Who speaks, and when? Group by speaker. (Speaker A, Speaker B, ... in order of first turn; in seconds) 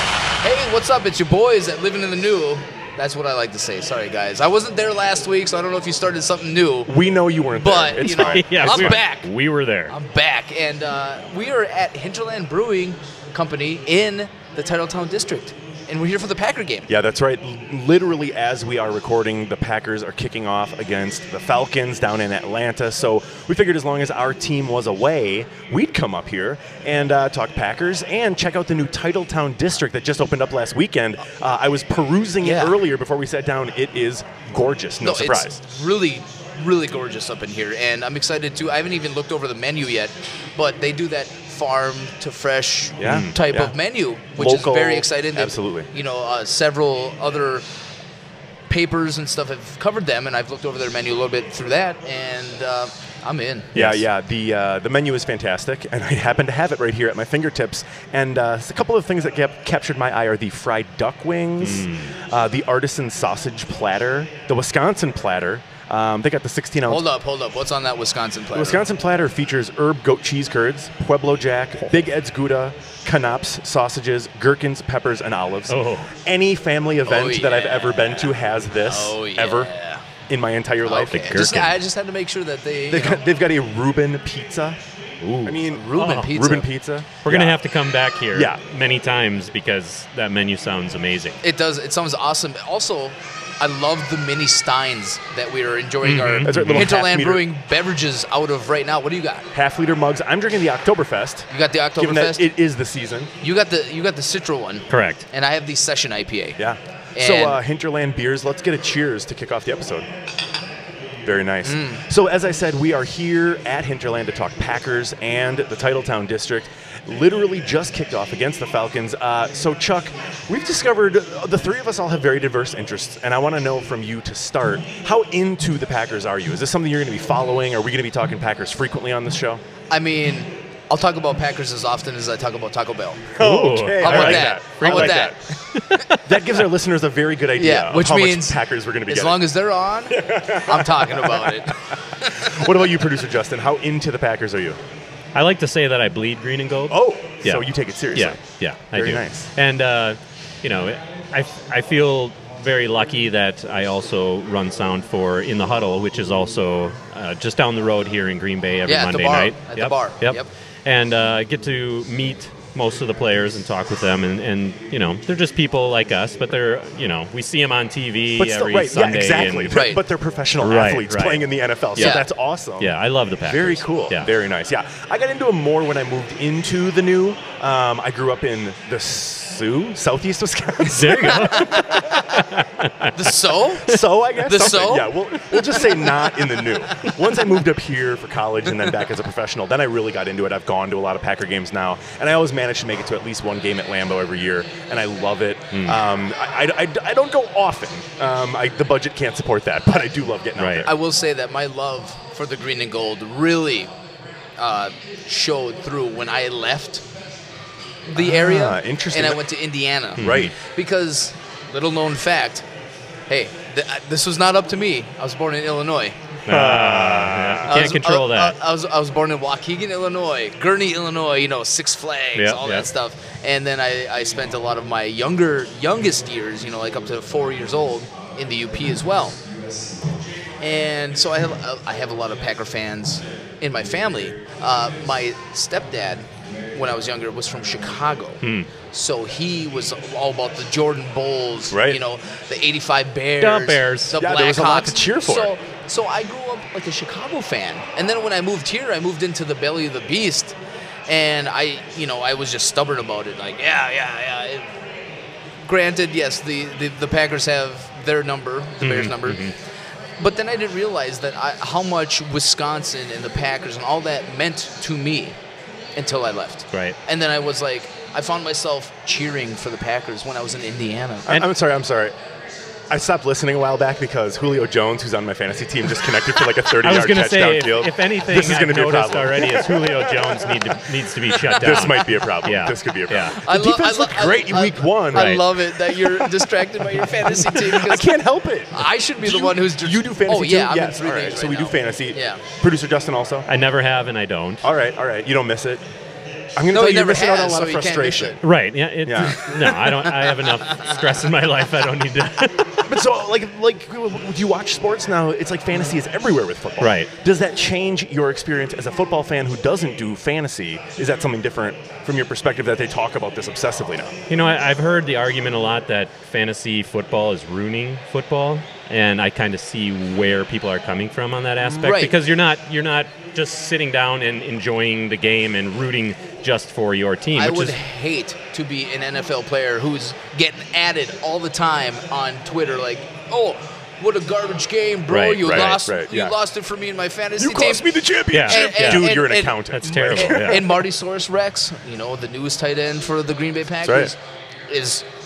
Speaker A: 0.4-7.0, 7.5-9.3, 9.9-16.9, 32.4-32.8, 35.0-47.7, 48.7-53.7, 66.9-68.8, 77.0-80.1, 80.8-83.3, 85.7-86.7, 91.4-99.5, 101.5-102.5, 103.4-106.6, 107.2-107.6, 111.6-112.0, 129.9-133.3, 134.0-136.1, 137.6-142.7, 158.8-160.5, 169.7-170.0, 172.0-172.3, 181.5-182.2, 183.1-183.9, 184.4-185.2, 200.8-203.9, 204.6-207.0, 208.1-212.7, 213.3-216.2, 217.7-229.4, 230.6-254.7, 255.6-259.5, 260.2-265.4, 266.0-271.4, 281.3-282.3, 283.4-288.2, 288.7-292.4, 296.7-298.4, 300.1-301.2, 321.7-322.2, 327.4-344.2, 344.7-345.1
Speaker B: 6.9-9.0, 16.9-35.6, 43.0-43.7, 44.4-45.9, 53.7-67.0, 68.5-79.7, 80.3-81.7, 82.9-84.8, 85.4-87.6, 88.3-88.6, 96.5-97.5, 99.5-103.3, 106.6-110.1, 111.2-129.6, 133.4-135.4, 136.2-139.5, 140.1-144.8, 146.9-148.4, 148.9-149.5, 168.4-182.1, 183.8-200.9, 208.2-209.4, 210.2-210.5, 216.5-217.9, 241.7-242.0, 244.2-245.5, 271.3-272.1, 272.9-280.7, 281.5-286.5, 287.3-293.5, 294.6-295.8, 296.6-298.4, 299.0-299.6, 302.9-314.1, 335.4-336.4, 337.4-340.9, 343.9-344.1
Speaker C: 8.0-9.9, 43.0-43.6, 53.8-54.1, 61.6-62.1, 75.7-76.1, 81.1-81.8, 85.2-86.3, 87.2-91.4, 96.0-96.9, 104.9-105.2, 133.4-136.0, 145.3-170.0, 170.6-174.3, 180.9-183.1, 195.7-196.0, 200.6-200.9, 210.2-210.5, 216.5-218.6, 222.3-222.9, 238.4-238.7, 243.4-244.2, 258.8-259.6, 276.8-283.4, 285.1-285.5, 293.5-294.7, 298.4-302.9, 306.8-307.1, 314.3-327.8, 335.1-335.8, 338.3-339.2, 339.7-340.7